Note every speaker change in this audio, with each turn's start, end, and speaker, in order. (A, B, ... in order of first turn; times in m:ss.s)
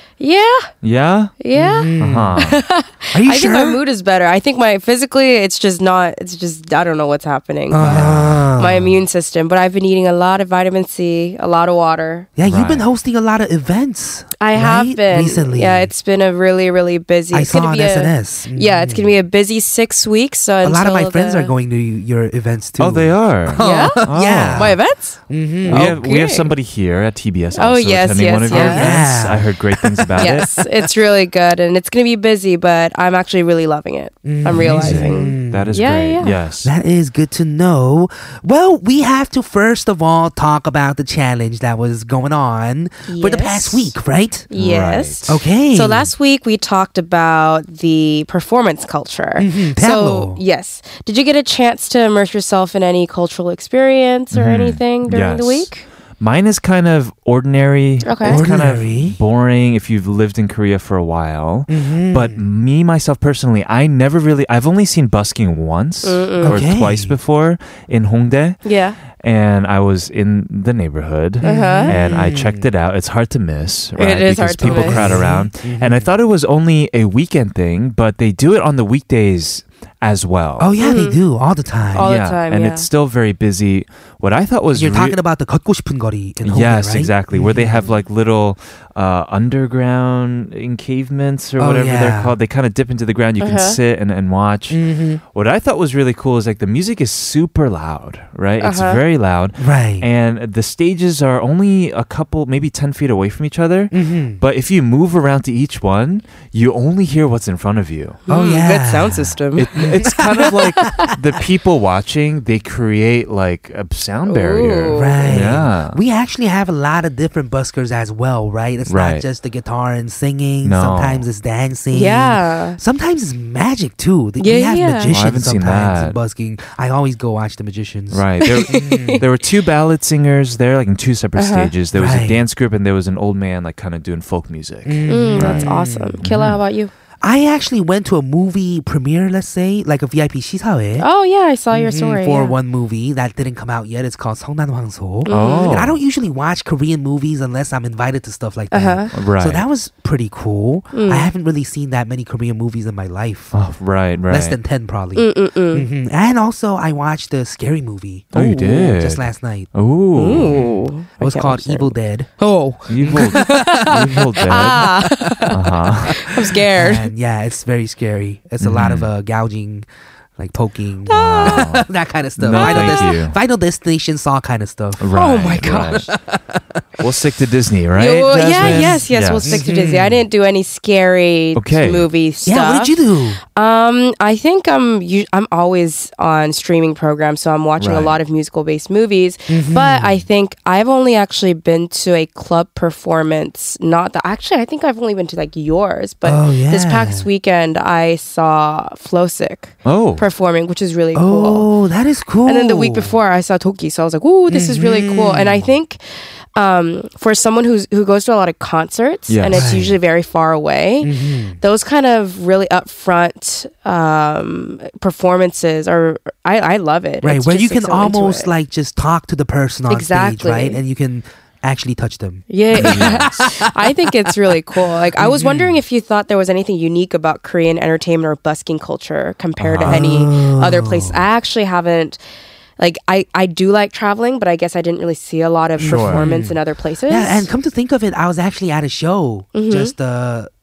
0:00.2-0:00.7 A
0:00.8-0:01.3 B
0:01.4-0:08.1 A
0:01.5-0:02.4 C
0:02.0-0:02.6 B
0:03.1-0:03.8 C
0:07.7-0:09.0 C
0:07.8-0:08.4 B
0:08.6-0:12.3 A
0:12.4-0:15.9 C
0:12.4-0:12.9 B
0:14.4-0:21.5 A
0:17.3-0:19.1 C
0:20.6-0:24.8 C
0:22.8-0:24.7 B
0:23.6-0:26.5 A
0:25.3-0:26.0 C
0:25.7-0:30.5 B
0:27.6-0:29.0 A
0:28.5-0:30.4 C
0:30.2-0:36.3 A
0:34.2-0:35.8 C
0:34.5-0:36.7 B
0:36.6-0:44.5 C
0:43.0-0:43.9 A
0:44.5-0:55.8 A
0:44.5-0:45.4 B
0:45.3-0:46.1 C
0:49.4-0:50.4 C
0:54.3-1:08.6 B
0:58.0-0:58.4 A
0:58.2-0:59.2 C
1:01.7-1:02.4 C
1:06.0-1:06.6 A
1:06.4-1:07.2 C
1:08.6-1:09.0 A
1:09.1-1:20.7 B
1:11.4-1:12.6 C
1:11.4-1:11.9 A
1:14.0-1:15.2 A
1:14.6-1:16.1 C
1:20.6-1:22.1 C
1:20.8-1:21.2 A
1:21.9-1:22.9 A
1:22.0-1:25.2 B
1:24.7-1:27.8 C
1:26.4-1:34.8 B
1:31.6-1:32.4 C
1:33.4-1:33.8 A
1:34.7-1:35.2 C
1:35.3-1:48.2 B
1:38.6-1:39.0 A
1:39.6-1:40.1 C
1:43.9-1:44.4 C
1:48.3-1:51.1 A
1:48.3-1:50.7 C
1:49.6-1:56.0 B
1:54.3-1:55.4 A
1:54.9-2:09.2 C
1:58.9-1:59.2 B
2:00.6-2:01.2 B
2:01.9-2:02.8 A
2:04.4-2:05.1 A
2:05.1-2:06.2 B
2:08.1-2:15.6 B
2:08.4-2:09.2 A
2:11.4-2:11.7 A
2:11.9-2:12.4 C
2:14.8-2:16.2 C
2:15.1-2:16.9 A
2:16.2-2:16.6 B
2:17.2-2:21.0 C
2:21.0-2:22.6 A
2:21.7-2:33.5 C
2:25.2-2:25.8 A
2:25.3-2:26.0 B
2:28.7-2:29.1 A
2:29.1-2:29.6 B
2:30.9-2:31.3 A
2:33.5-2:34.6 B
2:34.3-2:39.7 C
2:35.2-2:35.9 A
2:38.3-2:40.6 B
2:40.2-2:41.9 A
2:40.3-2:56.8 C
2:42.9-2:44.9 B
2:43.1-2:45.6 A
2:45.5-2:46.2 B
2:46.1-2:47.1 A
2:48.6-2:49.1 B
2:51.1-2:51.7 A
2:51.2-2:51.9 B
2:52.4-2:53.4 B
2:52.5-2:53.1 A
2:55.0-2:56.0 B
2:55.1-2:56.0 A
2:57.0-2:59.6 B
2:58.0-3:03.0 A
2:58.6-3:00.2 C
3:01.6-3:02.1 B
3:02.4-3:03.4 C
3:03.5-3:21.7 A
3:07.8-3:08.2 B
3:09.5-3:10.2 C
3:16.2-3:17.3 C
3:19.8-3:20.2 B
3:21.1-3:23.2 C
3:22.4-3:26.0 A
3:24.5-3:25.7 C
3:26.5-3:38.5 A
3:29.3-3:29.7 B
3:29.5-3:30.0 C
3:31.0-3:31.6 C
3:37.2-3:43.9 C
3:39.9-3:40.8 A
3:42.5-3:52.2 A
3:42.7-3:43.5 B
3:45.2-3:45.8 C
3:49.6-3:50.0 B
3:49.8-3:51.2 C
3:52.8-3:57.5 A
3:55.8-4:00.5 C
3:55.8-3:56.3 B
3:59.5-3:59.9 A